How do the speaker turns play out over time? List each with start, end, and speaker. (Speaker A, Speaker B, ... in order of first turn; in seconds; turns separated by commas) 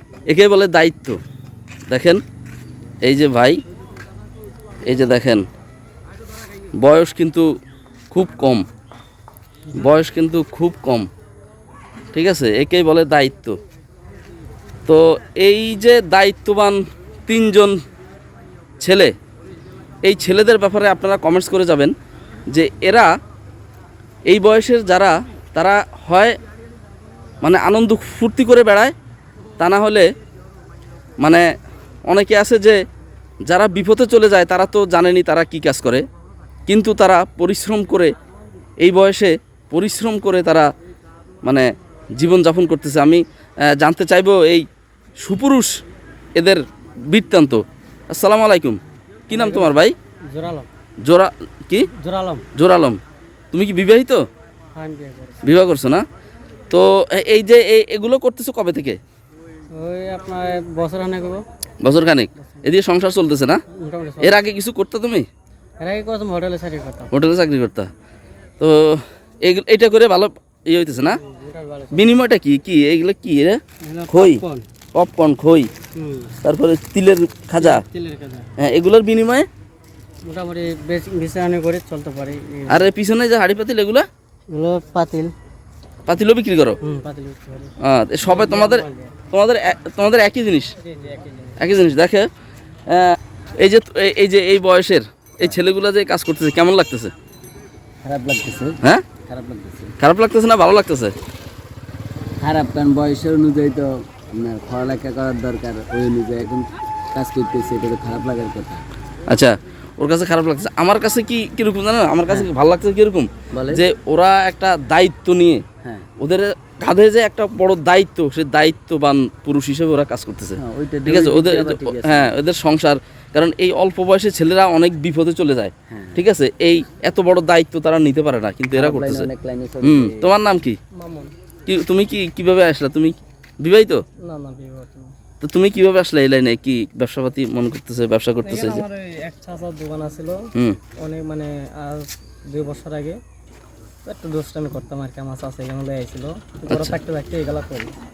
Speaker A: 0.3-1.2, Speaker A: 1.9-2.2, Speaker A: 3.0-3.6, Speaker A: 4.8-5.5, Speaker A: 6.8-7.5, Speaker A: 8.1-8.7, Speaker A: 9.8-11.1, Speaker A: 12.1-13.6, Speaker A: 14.9-17.8, Speaker A: 18.8-19.1, Speaker A: 20.0-21.9, Speaker A: 22.5-23.1, Speaker A: 24.3-26.4, Speaker A: 27.4-28.9, Speaker A: 29.6-30.1, Speaker A: 31.2-31.5, Speaker A: 32.1-32.8, Speaker A: 33.5-36.0, Speaker A: 36.7-38.1, Speaker A: 38.8-40.7, Speaker A: 41.4-44.7, Speaker A: 45.2-45.8, Speaker A: 46.4-50.0, Speaker B: 49.3-49.8, Speaker B: 50.3-50.7, Speaker A: 51.0-51.9, Speaker B: 52.0-52.5, Speaker A: 52.5-53.0, Speaker A: 53.5-54.2, Speaker B: 54.8-55.4, Speaker A: 55.4-56.0, Speaker A: 56.7-59.0, Speaker B: 59.7-61.4, Speaker A: 61.8-63.6, Speaker B: 62.4-62.7, Speaker B: 63.7-64.4, Speaker A: 64.2-65.3, Speaker B: 65.8-67.1, Speaker A: 67.1-67.9, Speaker A: 68.6-71.2, Speaker B: 71.2-72.1, Speaker A: 71.9-74.4, Speaker B: 73.8-74.7, Speaker A: 75.0-75.7, Speaker B: 76.0-76.3, Speaker A: 76.4-77.8, Speaker B: 77.5-78.5, Speaker A: 78.6-79.5, Speaker B: 80.3-82.9, Speaker A: 82.7-84.1, Speaker B: 84.5-85.3, Speaker A: 86.1-86.8, Speaker B: 86.8-89.2, Speaker A: 87.8-90.7, Speaker B: 90.8-91.7, Speaker A: 91.6-92.3, Speaker A: 92.9-97.1, Speaker C: 98.0-99.9, Speaker A: 100.0-101.1, Speaker C: 102.4-108.8, Speaker A: 109.3-115.6, Speaker C: 113.5-113.8, Speaker A: 116.2-129.3, Speaker C: 120.6-122.3, Speaker C: 125.9-126.2, Speaker C: 128.7-130.3, Speaker A: 129.8-130.8, Speaker B: 130.9-131.3, Speaker A: 131.7-134.0, Speaker B: 134.2-135.1, Speaker A: 135.4-138.8, Speaker B: 138.4-140.5, Speaker B: 141.0-143.2, Speaker B: 144.1-147.9, Speaker A: 146.7-147.0